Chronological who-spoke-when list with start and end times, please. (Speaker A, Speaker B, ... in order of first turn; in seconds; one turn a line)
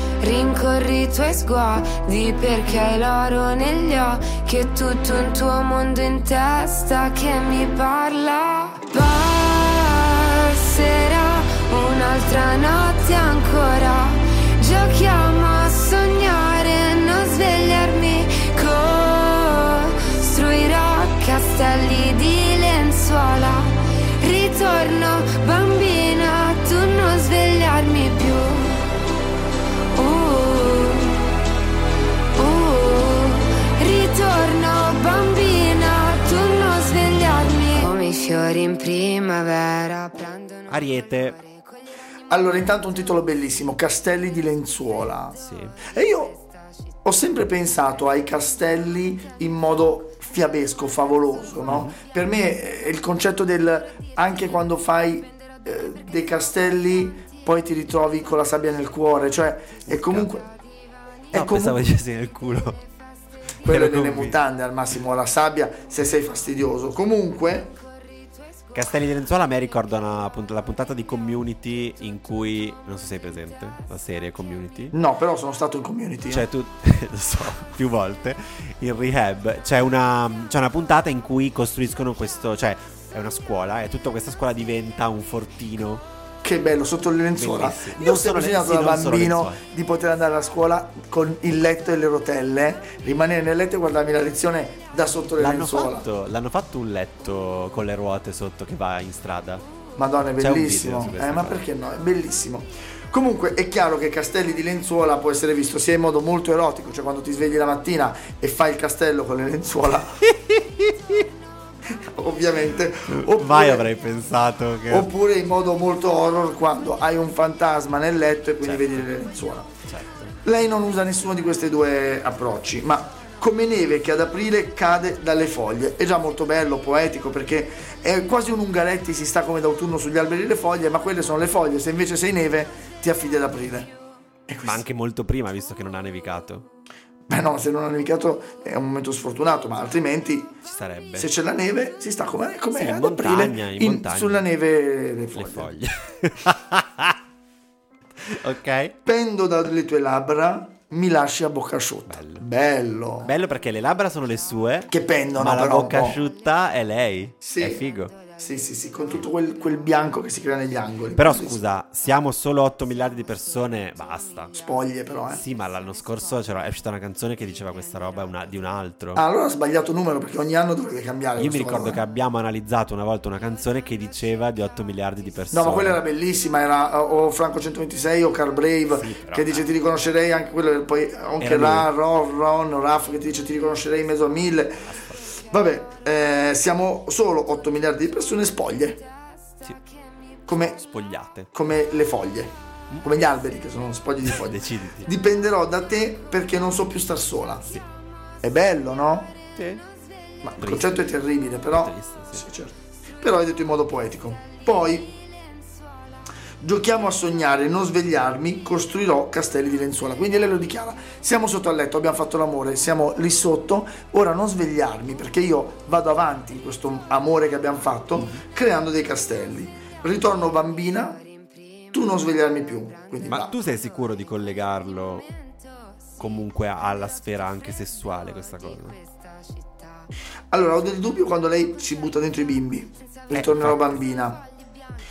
Speaker A: 0.2-28.9
Speaker A: 29.9-31.3
Speaker A: 32.4-41.7
Speaker B: 40.7-41.4
Speaker C: 42.3-46.4
Speaker B: 45.4-45.8
Speaker C: 47.0-60.5
Speaker B: 51.7-52.0
Speaker B: 59.9-60.3
Speaker C: 61.3-61.8
Speaker B: 61.3-62.8
Speaker B: 63.6-64.4
Speaker C: 63.6-67.8
Speaker B: 68.7-75.0
Speaker C: 74.9-76.5
Speaker B: 76.3-86.0
Speaker C: 86.4-96.1
Speaker B: 87.4-89.6
Speaker B: 95.4-99.6
Speaker C: 100.0-110.3
Speaker B: 100.4-101.6
Speaker B: 110.2-111.2
Speaker C: 111.9-113.8
Speaker B: 113.1-115.1
Speaker C: 114.9-119.7
Speaker B: 118.6-119.1
Speaker B: 119.8-120.4
Speaker C: 120.4-133.9
Speaker C: 134.5-134.8
Speaker B: 134.6-136.7
Speaker C: 137.3-140.6
Speaker B: 140.6-141.3
Speaker C: 141.2-145.7
Speaker B: 142.7-144.5
Speaker B: 145.3-147.2
Speaker B: 148.2-149.0
Speaker C: 149.1-153.3
Speaker B: 152.1-152.4
Speaker B: 153.2-158.2
Speaker C: 154.9-156.2
Speaker C: 157.4-157.8
Speaker C: 158.3-161.6
Speaker B: 161.2-164.5
Speaker C: 164.5-165.4
Speaker B: 165.3-169.2
Speaker C: 169.2-172.0
Speaker B: 171.4-176.0
Speaker C: 175.5-189.0
Speaker B: 178.9-179.7
Speaker B: 181.4-181.9
Speaker B: 184.8-185.2
Speaker C: 190.5-190.8
Speaker B: 190.5-191.5
Speaker C: 191.5-197.7
Speaker B: 194.2-195.1
Speaker C: 198.4-199.4
Speaker B: 199.6-199.8
Speaker C: 200.4-205.2
Speaker B: 200.6-201.1
Speaker B: 201.7-202.5
Speaker C: 206.6-221.2
Speaker B: 218.2-218.4
Speaker C: 221.9-223.5
Speaker B: 223.3-225.3
Speaker B: 226.2-229.0
Speaker C: 230.5-234.4
Speaker B: 233.3-234.0